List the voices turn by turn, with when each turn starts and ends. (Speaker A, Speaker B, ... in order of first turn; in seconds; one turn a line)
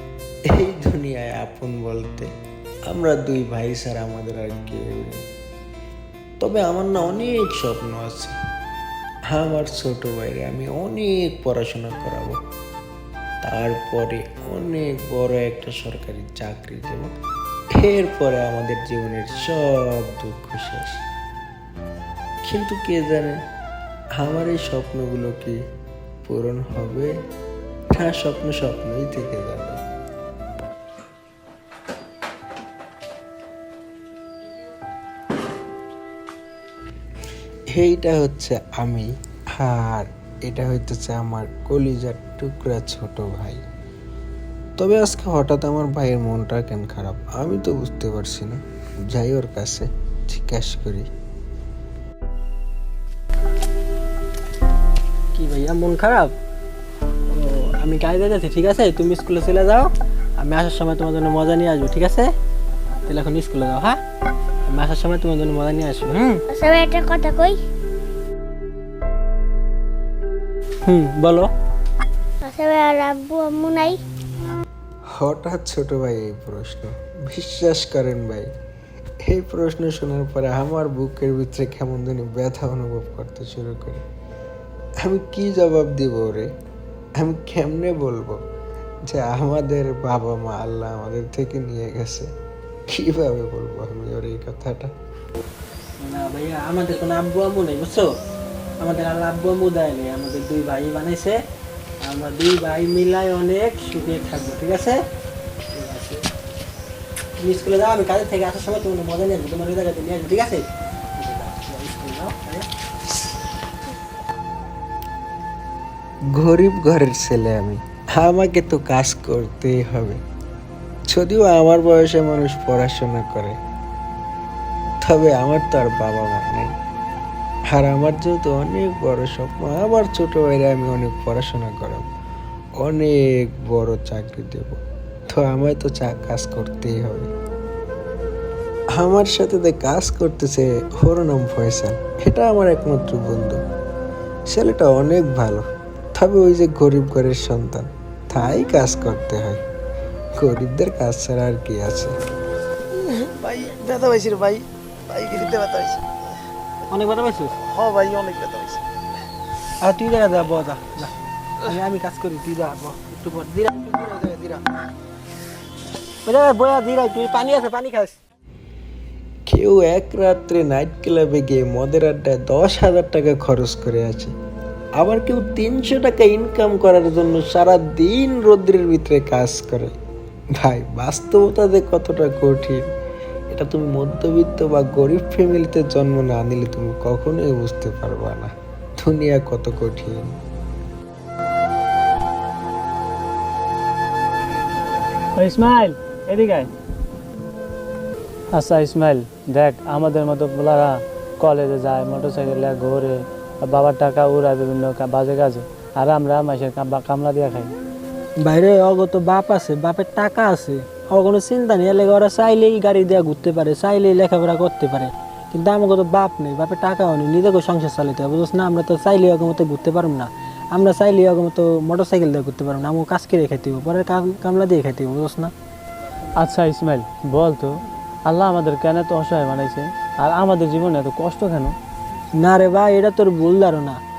Speaker A: 0.5-2.3
Speaker A: 2.9-5.2
Speaker A: 6.4-8.4
Speaker A: 9.3-12.4
Speaker A: 13.4-17.1
Speaker A: 17.8-21.0
Speaker A: 22.4-23.4
Speaker A: 24.2-25.6
Speaker A: 26.2-27.1
Speaker A: 27.9-29.8
Speaker A: 37.8-43.6
Speaker A: 44.8-48.6
Speaker A: 49.1-51.1
Speaker B: 55.3-56.3
Speaker B: 57.3-62.3
Speaker B: 63.1-64.0
Speaker B: 64.7-66.4
Speaker C: 66.5-67.6
Speaker B: 70.9-71.5
Speaker C: 72.4-74.0
Speaker A: 75.2-78.5
Speaker A: 79.3-84.0
Speaker A: 85.0-86.5
Speaker A: 87.2-88.4
Speaker A: 89.1-92.3
Speaker A: 92.9-94.9
Speaker B: 96.0-98.1
Speaker B: 98.8-101.3
Speaker B: 102.0-105.0
Speaker B: 105.7-106.2
Speaker B: 107.4-112.7
Speaker A: 116.3-120.2
Speaker A: 121.1-123.6
Speaker A: 125.0-126.7
Speaker A: 127.7-132.1
Speaker A: 132.8-137.3
Speaker A: 138.9-143.6
Speaker A: 144.5-149.6
Speaker A: 150.4-152.2
Speaker D: 153.6-154.6
Speaker D: 155.3-156.0
Speaker B: 156.9-157.6
Speaker D: 157.8-158.8
Speaker B: 159.8-161.1
Speaker B: 161.6-164.6
Speaker B: 166.2-168.2
Speaker A: 169.5-174.3
Speaker A: 175.0-179.9
Speaker A: 180.6-182.9
Speaker A: 183.5-190.3
Speaker E: 195.3-196.7
Speaker E: 198.5-207.7
Speaker B: 208.4-225.5
Speaker E: 226.4-231.8
Speaker B: 232.4-234.0